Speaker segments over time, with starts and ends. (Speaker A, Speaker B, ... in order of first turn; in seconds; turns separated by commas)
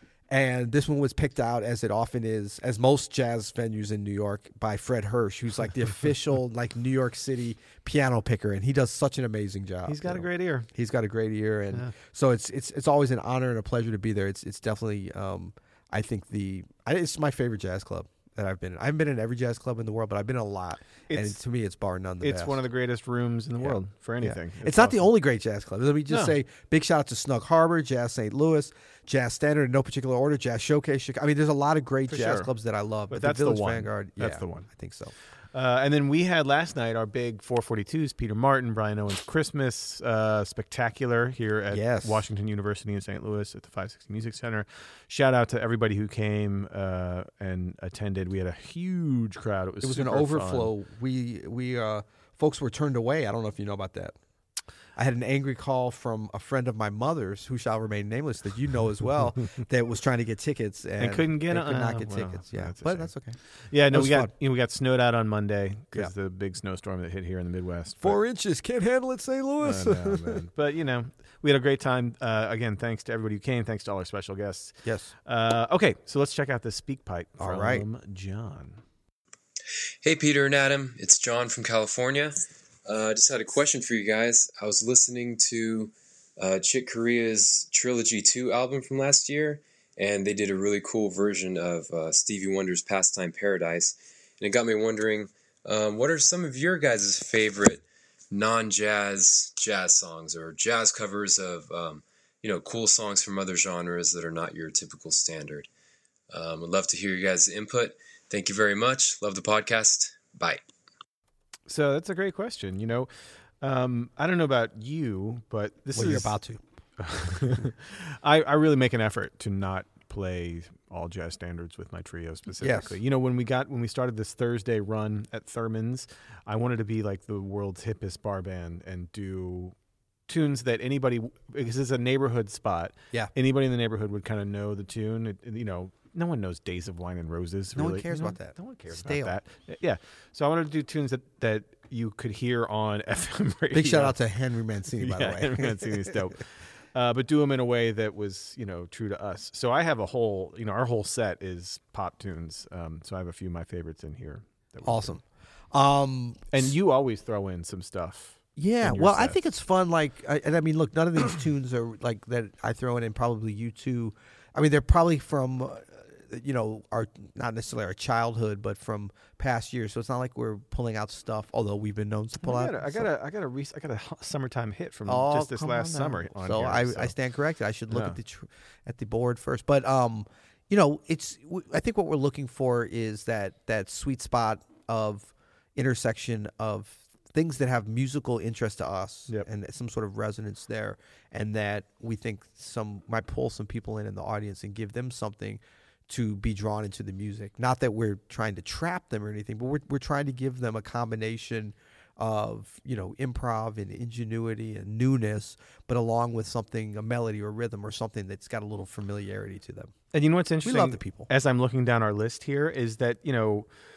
Speaker A: 0.3-22.6, Speaker B: 9.9-10.7, Speaker B: 21.1-21.4, Speaker B: 22.2-25.1, Speaker A: 23.6-35.1, Speaker B: 26.1-26.4, Speaker B: 32.1-32.5, Speaker B: 33.1-34.7, Speaker B: 35.5-50.7, Speaker A: 41.7-42.2, Speaker A: 49.8-54.1, Speaker A: 55.0-63.4, Speaker B: 61.0-63.1, Speaker B: 63.7-68.2, Speaker A: 63.9-64.3, Speaker A: 68.0-70.4, Speaker B: 69.6-78.8, Speaker A: 74.8-75.1, Speaker A: 77.4-77.9, Speaker C: 80.0-105.7, Speaker C: 106.3-110.6, Speaker B: 111.7-113.1, Speaker B: 113.6-116.4, Speaker A: 115.9-116.6, Speaker B: 117.0-129.7, Speaker A: 122.6-123.0, Speaker B: 130.3-144.2, Speaker A: 137.7-139.4, Speaker A: 143.7-146.2, Speaker B: 145.0-155.2, Speaker A: 154.8-156.7, Speaker B: 156.5-159.4, Speaker A: 158.6-173.1, Speaker B: 172.4-177.2, Speaker A: 175.1-209.9, Speaker B: 177.9-178.2, Speaker B: 210.1-213.7, Speaker A: 210.6-211.3